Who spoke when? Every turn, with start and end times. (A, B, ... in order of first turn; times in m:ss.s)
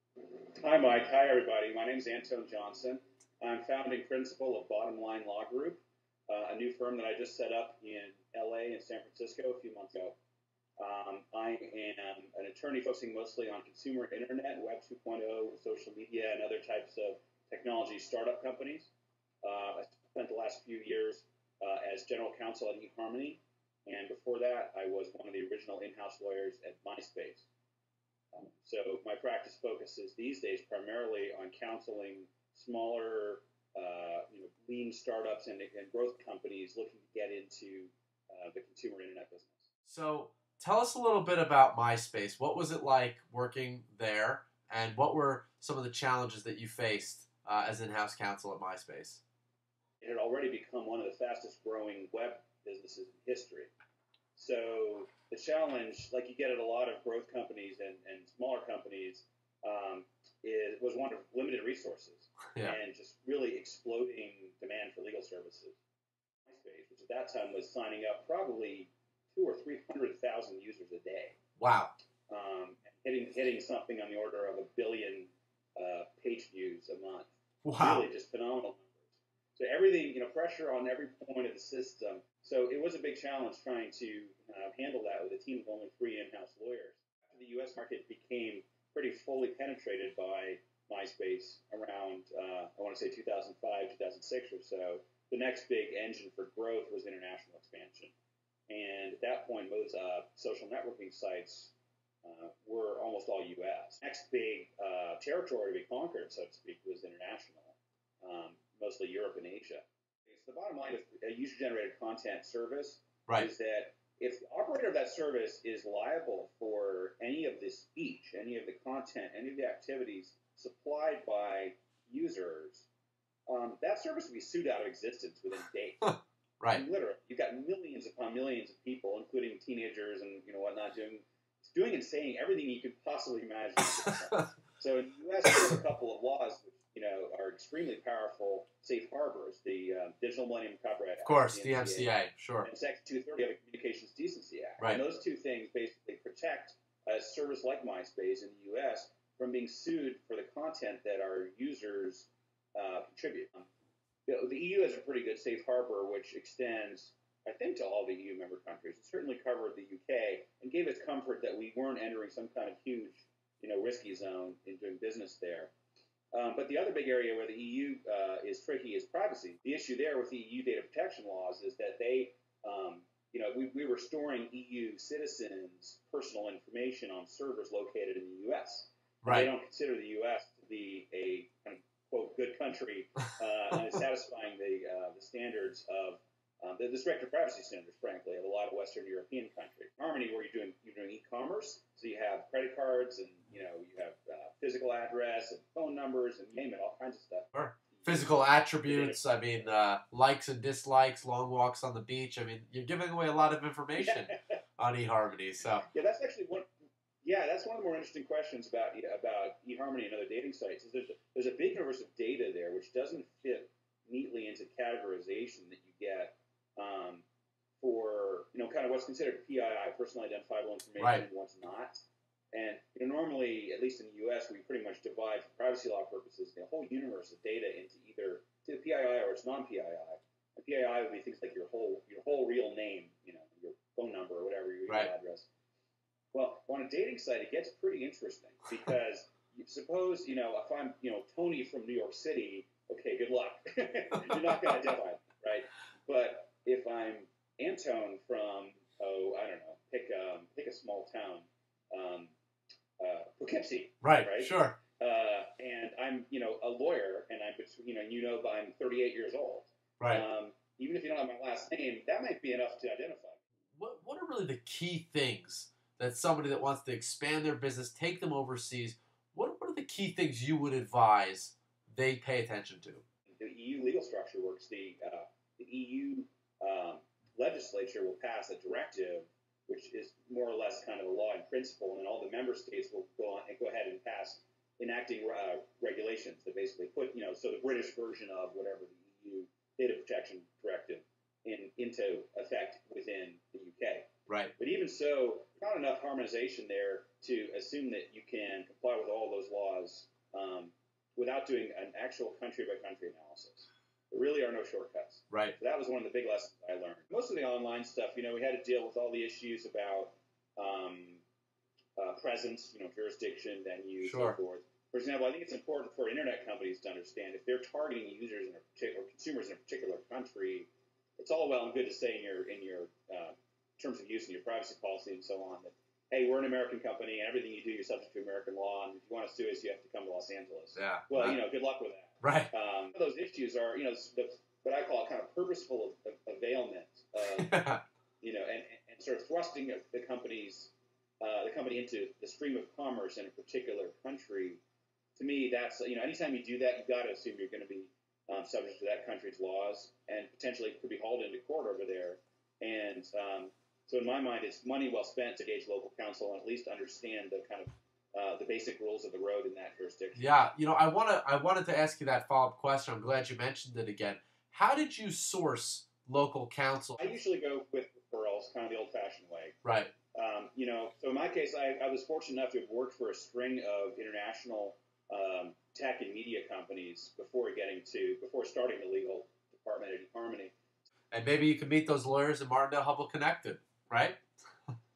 0:00.6-0:10.2 A
0:10.8-0:18.9 A
0:19.4-0:27.5 A
0:28.3-0:39.7 A
0:39.8-0:49.2 B
0:50.0-0:53.7 A
0:54.3-1:05.8 A
1:06.5-1:11.4 A
1:11.6-1:11.9 B
1:12.3-1:38.1 A
1:17.6-1:18.0 B
1:38.7-1:41.7 A
1:42.2-2:02.9 A
2:03.5-2:06.1 A
2:06.0-2:06.8 B
2:06.7-2:22.1 A
2:14.0-2:14.4 B
2:21.2-2:22.7 B
2:22.6-2:33.6 A
2:34.3-2:45.7 A
2:46.3-3:19.2 A
2:59.2-2:59.5 B
3:17.5-3:25.8 B
3:24.0-3:24.4 A
3:25.8-3:26.6 A
3:27.2-3:37.2 A
3:37.8-3:42.0 A
3:41.0-3:41.2 B
3:42.5-3:55.5 A
3:56.3-4:12.3 A
4:13.0-4:23.4 A
4:14.0-4:14.8 B
4:20.0-4:20.2 B
4:23.8-4:33.0 B
4:33.3-5:11.2 A
4:54.3-4:54.5 B
5:05.3-5:05.6 B
5:12.0-5:37.6 A
5:14.0-5:14.4 B
5:30.7-5:31.4 B
5:32.2-5:32.5 B
5:37.4-5:37.8 B
5:38.2-5:44.6 A
5:45.2-6:00.3 A
6:00.1-6:07.2 B
6:07.0-6:09.6 A
6:09.6-6:09.9 B
6:10.1-6:20.5 A
6:21.1-6:24.2 B